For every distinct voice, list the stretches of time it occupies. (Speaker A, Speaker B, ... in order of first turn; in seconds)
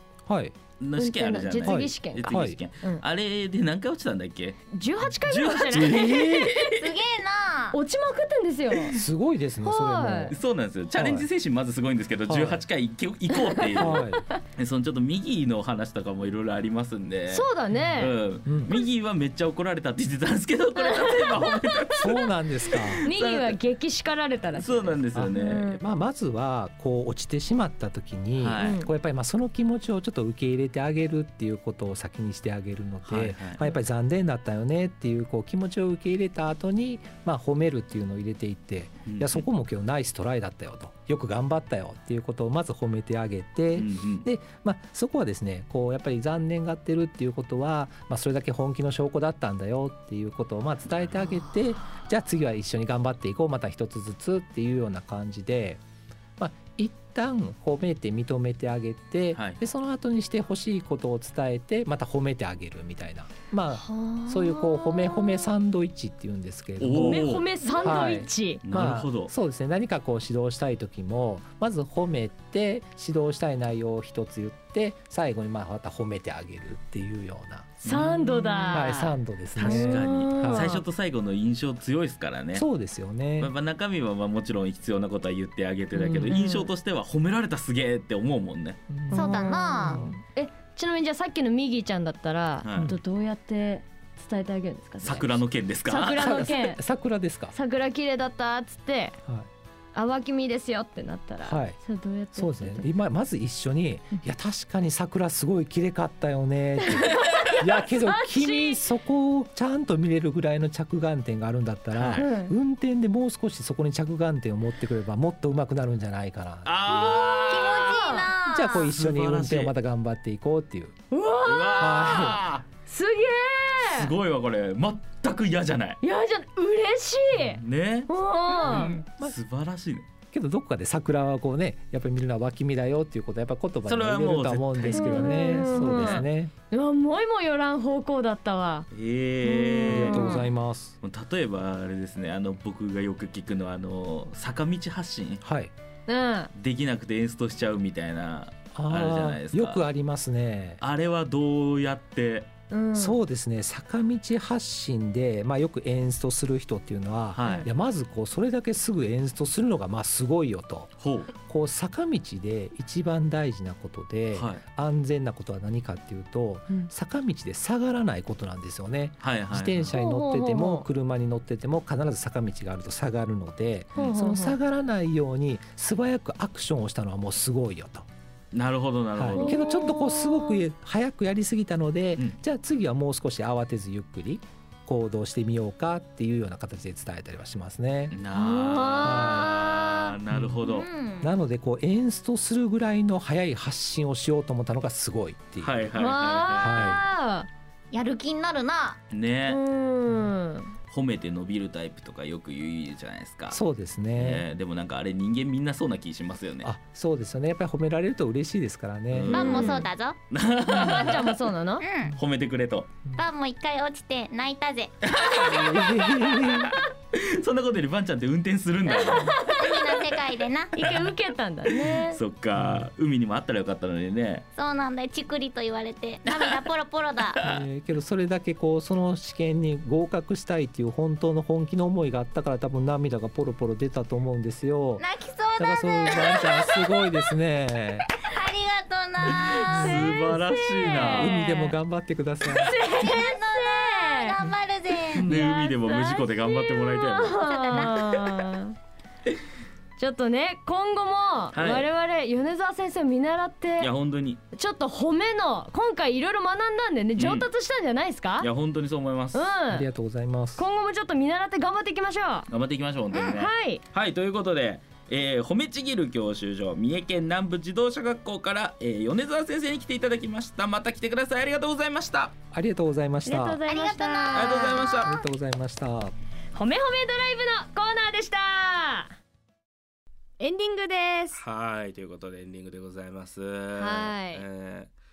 Speaker A: 0.3-0.5, 1.6-2.6, 5.7-6.5, 8.9-10.4, 10.9-11.3, 12.3-12.6, 13.8-14.2, 17.7-18.7, 22.0-23.1, 25.1-55.8, 56.4-77.9, 78.7-80.7, 82.5-83.5, 85.9-86.3, 88.9-90.2, 96.1-97.5, 101.4-101.8, 102.3-117.1, 118.5-120.9, 121.8-122.4, 128.7-129.3, 130.3-136.5, 139.8-140.9, 145.4-145.7, 148.7-150.8, 152.9-178.1, 179.1-188.2, 189.0-189.6, 190.3-190.6, 191.2-195.9, 196.6-197.0, 200.1-200.3, 203.5-204.4, 206.6-209.8, 215.3-216.7, 222.6-222.9, 227.4-235.0, 235.6-238.1, 239.6-240.2, 240.9-242.7, 259.7-260.6, 272.5-273.6, 274.8-276.1
Speaker B: 0.8-6.9, 10.3-17.5, 18.0-23.6, 24.5-25.7, 28.4-28.8, 33.0-33.6, 39.0-39.5, 43.7-44.2, 59.3-59.6, 66.8-67.5, 68.6-69.3, 77.8-79.0, 79.5-82.7, 83.4-88.8, 92.6-92.9, 95.0-96.2, 111.9-112.3, 116.6-117.9, 118.8-119.7, 121.4-122.6, 123.8-126.0, 127.3-128.1, 128.7-130.1, 133.8-136.3, 138.9-140.3, 141.0-145.4, 146.5-149.8, 150.8-152.5, 157.3-157.7, 161.0-161.3, 164.3-164.6, 169.2-170.0, 178.5-179.6, 188.1-190.9, 195.6-197.0, 199.1-199.6, 200.9-203.6, 204.2-206.7, 209.1-211.3, 212.2-212.9, 215.0-219.4, 221.7-224.4, 226.3-226.6, 239.3-241.4, 245.2-247.9, 251.5-251.9, 253.8-254.4, 257.1-257.5, 258.4-259.4, 262.5-272.3, 274.3-275.1, 281.3-284.9
Speaker C: 0.9-3.0, 4.7-6.2, 7.7-9.0, 9.6-10.3, 13.8-14.0, 17.3-18.1, 20.8-21.5, 23.0-25.8, 28.6-28.9, 63.9-64.8, 66.9-68.6, 77.8-80.8, 86.2-86.7, 89.1-96.8, 97.5-99.2, 99.9-102.8, 106.8-108.8, 112.2-112.5, 116.9-118.3, 121.1-124.1, 126.0-128.9, 134.9-138.9, 139.4-140.4, 146.1-146.5, 152.7-153.2, 157.4-157.7, 169.9-170.9, 173.9-174.6, 179.4-180.6, 188.3-189.8, 195.9-197.5, 199.5-200.7, 209.3-209.8, 210.7-211.8, 218.9-220.0, 220.7-222.2, 239.6-241.8, 242.6-244.3, 245.1-248.7, 250.0-253.9, 254.5-258.5, 259.3-259.9, 260.6-262.5, 263.2-263.8, 273.2-274.7, 276.5-279.1, 280.4-281.4, 283.7-284.4
Speaker D: 6.8-7.8, 89.1-90.0, 117.5-118.9, 128.5-128.9, 140.1-140.4, 190.7-191.3, 197.9-199.0, 209.3-210.2, 211.8-212.2, 213.2-214.9, 219.5-220.7, 224.6-227.4, 235.0-236.9, 238.2-239.8, 242.9-245.4, 247.4-248.4, 273.7-275.2